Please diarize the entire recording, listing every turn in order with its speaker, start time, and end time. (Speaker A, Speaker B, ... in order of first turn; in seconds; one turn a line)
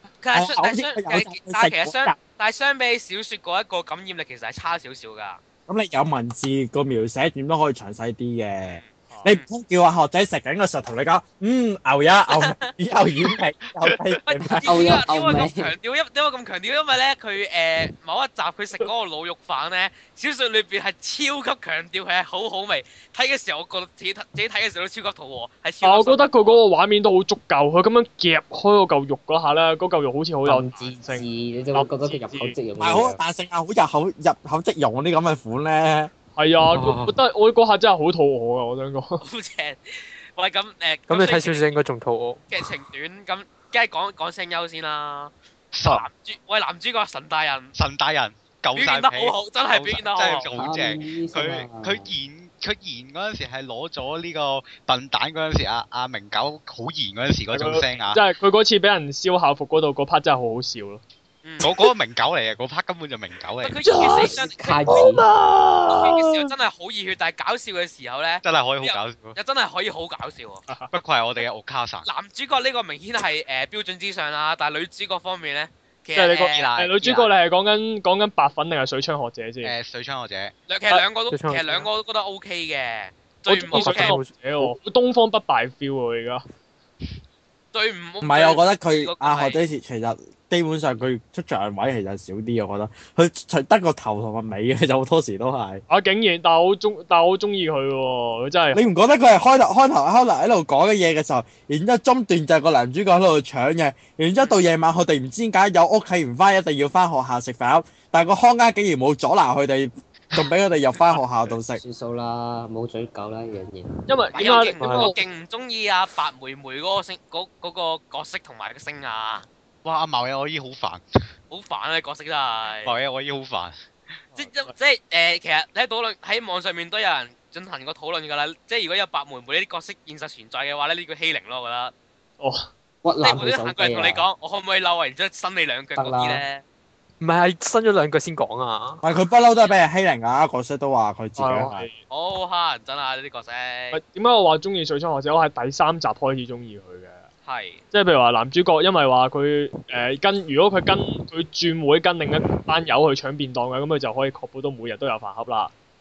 Speaker A: 0.2-5.4
Speaker B: 0.3-2.1
Speaker B: 5.7-14.9
Speaker A: 8.7-9.4
Speaker A: 12.3-12.7
Speaker A: 14.2-26.6
Speaker C: 14.5-15.7
Speaker D: 25.8-32.6
Speaker C: 30.4-33.2
Speaker B: 32.8-36.1
Speaker D: 36.4-39.2
Speaker E: 36.7-37.1
Speaker A: 39.2-41.7
Speaker E: 41.1-42.4
Speaker A: 42.5-45.3
Speaker F: 45.7-46.1
Speaker A: 45.8-47.7
Speaker F: 47.7-58.2
Speaker A: 48.7-50.5
Speaker C: 50.6-52.1
Speaker D: 57.5-61.0
Speaker A: 61.4-61.7
Speaker F: 61.6-63.8
Speaker A: 63.6-64.8
Speaker D: 63.9-66.5
Speaker C: 64.0-65.2
Speaker A: 65.9-70.6
Speaker F: 68.4-69.4
Speaker F: 70.9-72.1
Speaker A: 72.0-77.2
Speaker D: 76.2-79.7
Speaker F: 76.5-77.0
Speaker F: 79.6-80.5
Speaker A: 80.7-84.2
Speaker E: 80.9-81.9
Speaker D: 83.5-86.4
Speaker E: 83.7-84.7
Speaker A: 87.7-89.6
Speaker B: 88.2-95.8
Speaker D: 95.9-98.8
Speaker B: 98.7-111.8
Speaker C: 111.8-113.9
Speaker D: 114.1-115.2
Speaker A: 114.3-119.5
Speaker E: 114.8-115.1
Speaker F: 119.8-121.0
Speaker A: 121.5-123.0
Speaker F: 122.8-123.8
Speaker D: 124.3-124.7
Speaker A: 124.3-131.9
Speaker D: 132.4-132.7
Speaker C: 133.0-134.2
Speaker A: 133.2-136.6
Speaker C: 136.0-136.4
Speaker E: 137.2-139.0
Speaker B: 139.0-141.8
Speaker D: 141.4-142.0
Speaker A: 142.1-144.0
Speaker D: 143.9-147.3
Speaker A: 147.4-147.8
Speaker D: 147.9-155.7